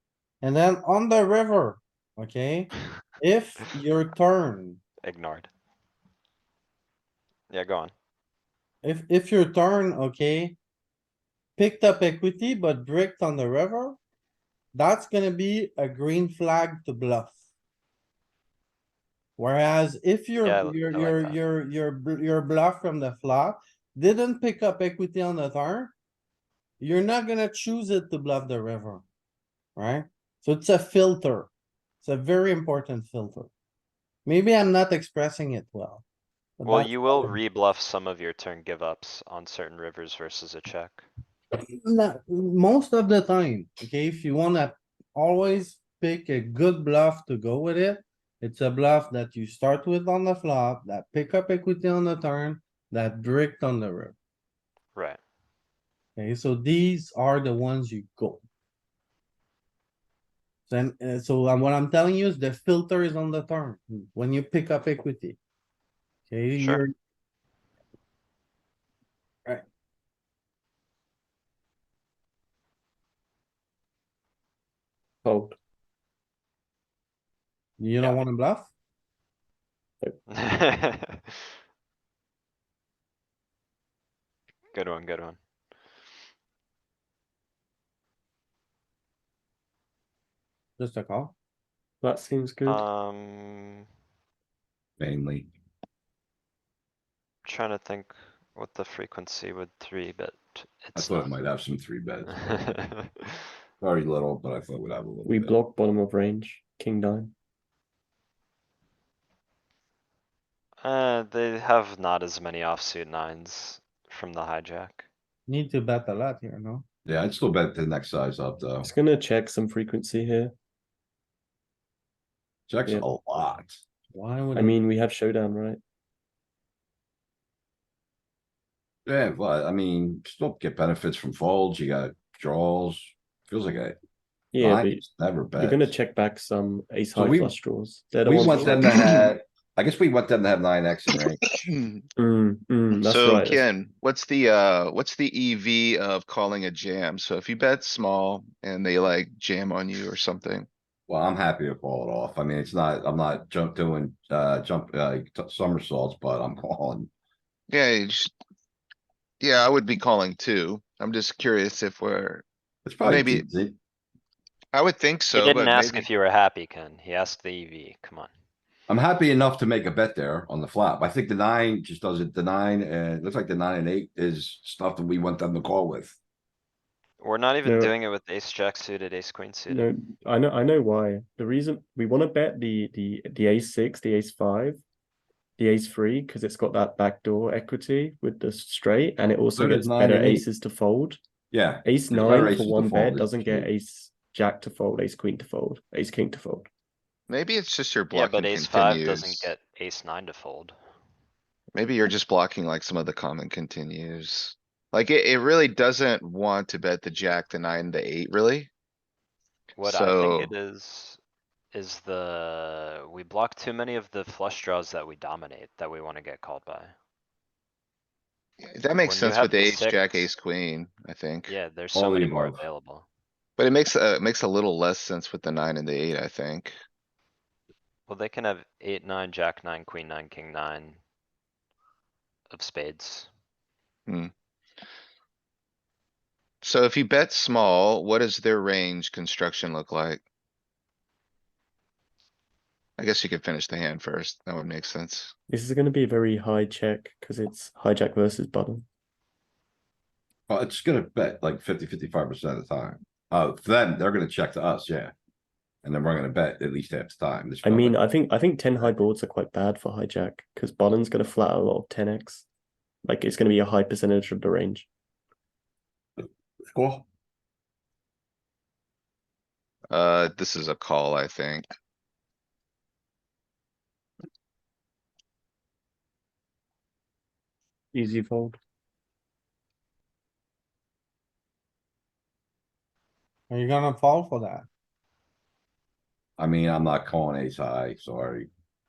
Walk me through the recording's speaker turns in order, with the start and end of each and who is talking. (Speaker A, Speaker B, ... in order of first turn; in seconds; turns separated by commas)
Speaker A: 0.4-4.8, Speaker B: 5.0-5.5, Speaker B: 7.5-7.9, Speaker A: 8.8-10.6, Speaker A: 11.6-14.0, Speaker A: 14.7-17.3, Speaker A: 19.4-25.9, Speaker B: 20.4-21.4, Speaker A: 26.8-29.0, Speaker A: 29.8-31.5, Speaker A: 32.0-33.5, Speaker A: 34.2-36.0, Speaker A: 36.6-37.4, Speaker B: 36.6-41.0, Speaker A: 41.8-54.1, Speaker B: 54.9-55.2, Speaker A: 56.2-58.4, Speaker A: 60.7-65.4, Speaker A: 66.3-66.9, Speaker B: 66.5-66.8, Speaker C: 75.2-75.6, Speaker A: 77.8-78.7, Speaker B: 80.4-81.2, Speaker B: 84.7-85.4, Speaker A: 90.8-91.3, Speaker C: 92.0-92.8, Speaker B: 92.6-93.8, Speaker D: 95.0-95.5, Speaker B: 97.4-101.3, Speaker D: 100.9-102.4, Speaker B: 102.3-103.1, Speaker D: 103.8-105.5, Speaker C: 105.2-107.3, Speaker B: 110.8-115.0, Speaker A: 115.5-116.8, Speaker D: 117.0-118.9, Speaker C: 118.8-120.5, Speaker D: 122.7-123.8, Speaker A: 124.1-124.8, Speaker C: 124.5-125.8, Speaker D: 129.1-134.0, Speaker C: 134.5-135.0, Speaker D: 134.6-135.9, Speaker C: 135.6-138.9, Speaker D: 137.1-137.6, Speaker D: 138.2-141.4, Speaker E: 138.4-139.3, Speaker E: 141.5-142.0, Speaker C: 142.2-143.7, Speaker E: 142.9-150.7, Speaker D: 151.1-157.1, Speaker E: 157.7-158.3, Speaker E: 159.4-162.4, Speaker D: 162.8-163.8, Speaker E: 163.0-163.4, Speaker E: 164.7-166.1, Speaker B: 165.3-168.3, Speaker D: 168.9-176.2, Speaker B: 177.2-179.8, Speaker C: 177.6-177.9, Speaker C: 179.7-184.8, Speaker C: 185.6-191.2, Speaker D: 189.6-190.4, Speaker D: 191.5-193.7, Speaker C: 191.8-196.7, Speaker E: 197.3-199.5, Speaker B: 198.1-200.7, Speaker E: 201.7-208.7, Speaker B: 209.8-211.2, Speaker E: 209.8-210.5, Speaker B: 211.7-216.9, Speaker E: 218.7-221.6, Speaker B: 219.0-220.3, Speaker B: 221.5-223.1, Speaker D: 221.9-222.6, Speaker E: 223.6-226.7, Speaker B: 228.1-231.0, Speaker B: 232.5-233.3, Speaker E: 236.6-240.2, Speaker E: 243.0-245.3, Speaker C: 245.5-248.8, Speaker D: 250.5-255.1, Speaker D: 255.8-258.0, Speaker C: 257.6-262.4, Speaker C: 263.0-264.9, Speaker D: 266.7-267.1, Speaker E: 269.9-271.6, Speaker C: 277.9-278.6, Speaker A: 283.5-284.6, Speaker D: 286.4-288.5